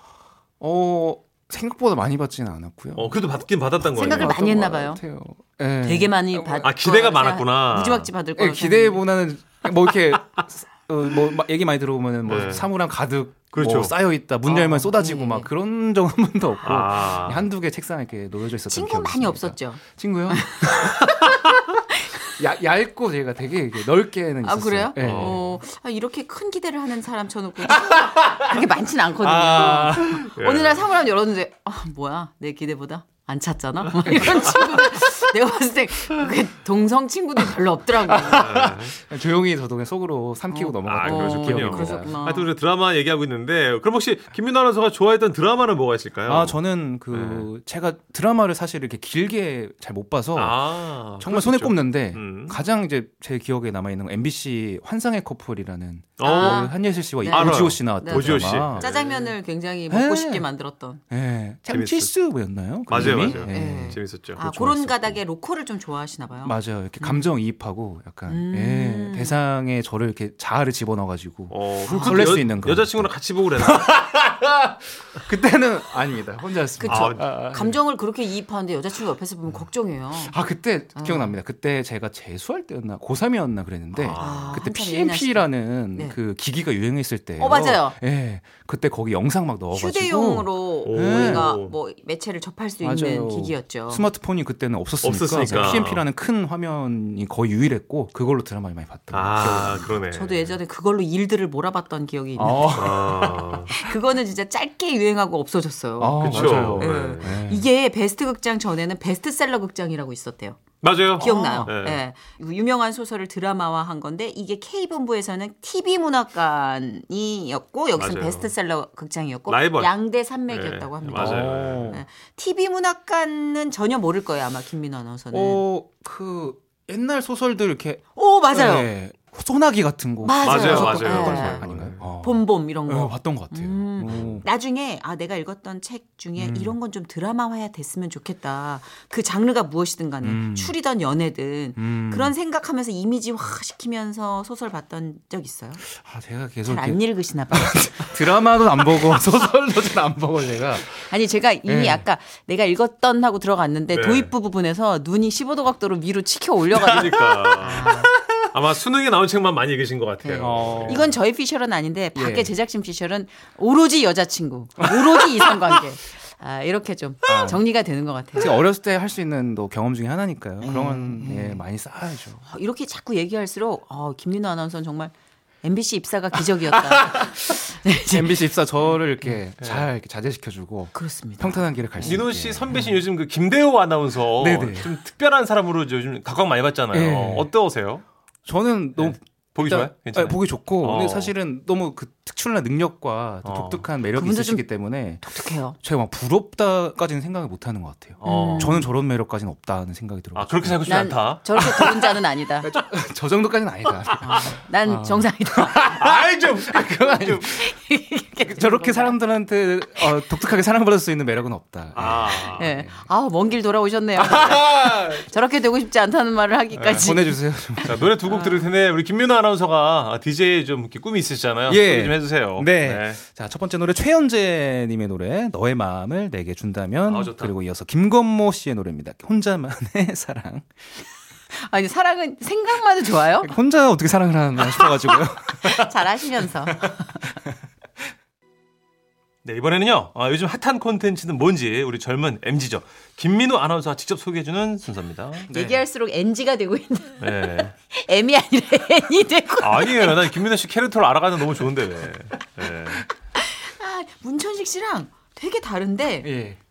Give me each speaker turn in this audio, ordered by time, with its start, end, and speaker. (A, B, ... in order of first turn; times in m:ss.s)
0:00.6-0:03.2 A
0:03.0-0:04.4 B
0:03.8-0:06.7 A
0:03.9-0:05.0 C
0:05.8-0:09.0 C
0:06.6-0:08.1 B
0:08.4-0:20.9 A
0:12.3-0:12.7 B
0:13.5-0:14.0 B
0:14.4-0:15.5 C
0:16.6-0:17.5 B
0:18.7-0:21.4 C
0:22.4-0:25.4 A
0:24.4-0:38.7 C
0:25.0-0:25.5 B
0:27.8-0:28.4 A
0:29.2-0:30.3 A
0:30.3-0:30.9 B
0:34.1-0:34.6 A
0:38.1-0:42.1 A
0:38.4-0:38.9 B
0:40.5-0:42.5 C
0:40.8-0:47.5 B
0:46.3-0:58.9 A
0:50.4-0:52.6 B
0:56.2-0:59.4 B
0:56.2-1:01.0 C
0:59.9-1:00.5 A
1:01.1-1:05.2 A
1:01.7-1:02.2 B
1:02.9-1:04.4 B
1:02.9-1:07.3 C
1:06.4-1:17.8 A
1:08.3-1:09.4 C
1:11.5-1:14.0 B
1:11.9-1:12.4 C
1:16.8-1:20.4 C
1:16.8-1:17.3 B
1:19.5-1:31.6 A
1:21.0-1:21.4 C
1:23.9-1:24.6 B
1:24.2-1:26.2 C
1:27.4-1:28.0 C
1:29.7-1:34.0 C
1:30.8-1:31.8 B
1:32.8-1:40.0 A
1:35.0-1:36.1 B
1:35.5-1:35.8 C
1:39.1-1:40.6 B
1:39.4-1:43.1 C
1:42.4-1:43.7 A
1:42.7-1:43.7 B
1:43.7-2:05.7 C
1:46.0-1:47.7 A
1:46.2-1:47.4 B
1:50.8-1:52.0 B
1:51.2-1:51.7 A
1:58.0-1:58.5 B
1:59.5-2:02.0 B
2:01.2-2:02.0 A
2:05.3-2:14.5 A
2:08.2-2:08.9 C
2:10.2-2:11.7 C
2:10.4-2:12.0 B
2:12.2-2:25.8 C
2:16.4-2:16.8 A
2:20.2-2:20.8 A
2:21.8-2:22.3 A
2:26.0-2:30.9 A
2:26.6-2:28.4 C
2:31.1-2:38.1 C
2:31.7-2:32.1 A
2:33.9-2:34.3 B
2:36.8-2:41.1 B
2:37.5-2:38.1 A
2:40.2-2:41.2 A
2:40.8-2:48.6 C
2:42.2-2:42.5 A
2:44.8-2:45.8 A
2:47.3-2:47.6 A
2:48.4-2:52.4 A
2:50.6-2:51.7 C
2:52.4-2:59.4 C
2:56.6-3:02.9 A
2:59.6-2:59.9 B
3:00.9-3:02.2 C
3:02.0-3:08.0 B
3:04.4-3:04.9 A
3:06.9-3:07.5 A
3:08.4-3:27.7 A
3:09.0-3:11.3 B
3:13.4-3:13.9 B
3:14.1-3:15.8 C
3:18.2-3:18.8 B
3:18.2-3:18.9 C
3:20.3-3:21.4 B
3:20.8-3:22.7 C
3:24.2-3:26.0 C
3:26.0-3:27.5 B
3:27.4-3:29.2 C
3:28.5-3:33.0 A
3:32.0-3:32.7 B
3:32.4-3:38.6 C
3:34.2-3:35.2 A
3:36.8-3:37.2 B
3:36.8-3:38.1 A
3:37.8-3:43.2 B
3:41.7-3:50.7 A
3:47.1-3:47.5 B
3:51.5-3:53.5 C
3:53.4-3:55.9 A
3:55.6-3:56.9 C
3:56.7-3:57.0 A
3:59.4-4:05.5 B
4:05.5-4:05.8 A
4:05.5-4:10.3 C
4:07.2-4:07.7 B
4:09.6-4:13.0 B
4:13.4-4:16.3 C
4:16.2-4:16.6 A